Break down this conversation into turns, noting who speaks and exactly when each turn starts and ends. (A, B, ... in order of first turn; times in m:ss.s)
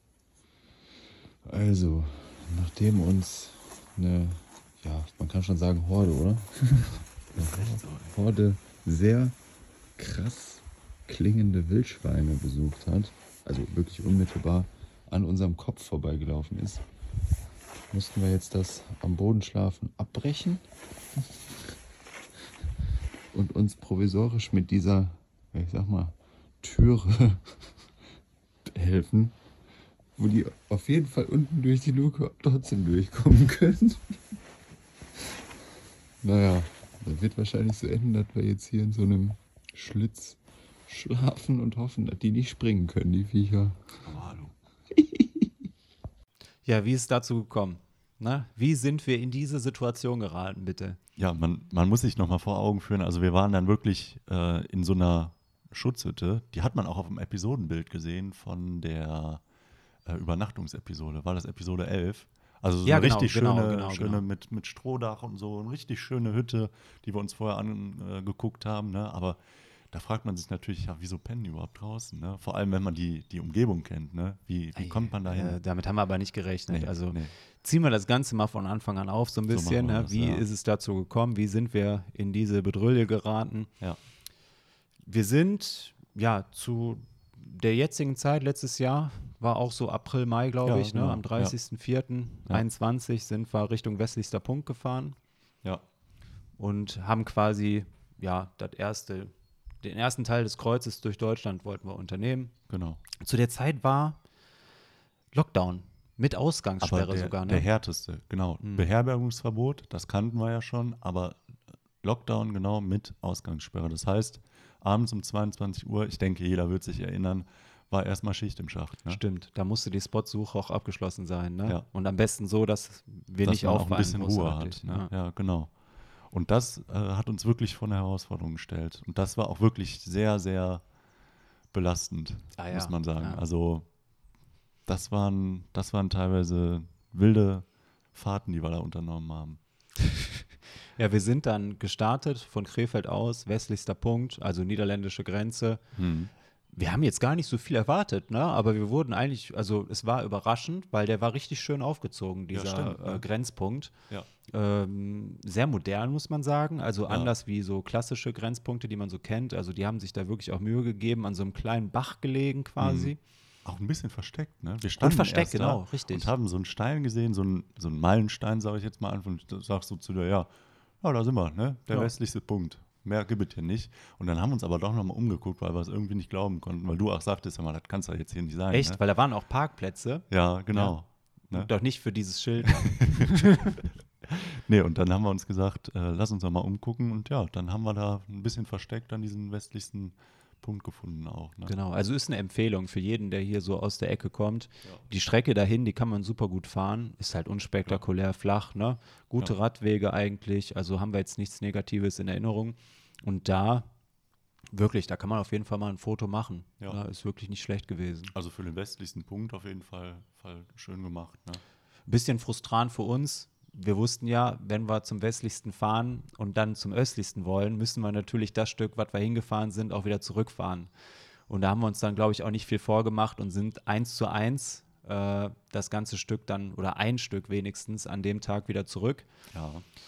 0:01.4-0:09.4 A
0:10.0-0:16.8 A
0:17.9-0:20.6 A
0:21.2-0:21.7 A
0:23.3-0:27.4 A
0:28.7-0:29.4 A
0:30.2-0:34.1 A
0:36.2-0:44.0 A
0:44.0-0:44.5 B
0:45.0-0:45.3 A
0:46.7-0:51.0 C
0:51.2-0:59.4 B
1:00.0-1:15.6 B
1:02.8-1:04.2 C
1:14.8-1:23.7 C
1:16.7-1:17.3 B
1:19.5-1:20.4 B
1:25.0-1:35.2 C
1:30.6-1:31.6 B
1:36.6-1:42.6 C
1:42.7-1:43.0 B
1:43.2-1:44.2 C
1:45.3-1:47.7 C
1:46.8-1:59.2 B
1:48.6-1:48.9 C
1:59.1-2:05.1 C
2:03.4-2:11.0 B
2:11.7-2:14.0 B
2:12.6-2:13.4 C
2:14.8-2:19.6 B
2:21.0-2:25.9 C
2:26.0-2:26.3 B
2:26.7-2:33.9 C
2:32.5-2:33.3 B
2:34.5-2:43.2 C
2:42.8-2:59.0 B
2:45.0-2:46.3 C
2:58.7-3:03.8 C
3:00.3-3:03.6 B
3:04.2-3:11.7 B
3:11.7-3:23.9 C
3:24.7-3:28.3 C
3:28.3-3:31.6 B
3:32.1-3:40.9 C
3:41.5-3:49.3 C
3:49.5-3:49.8 B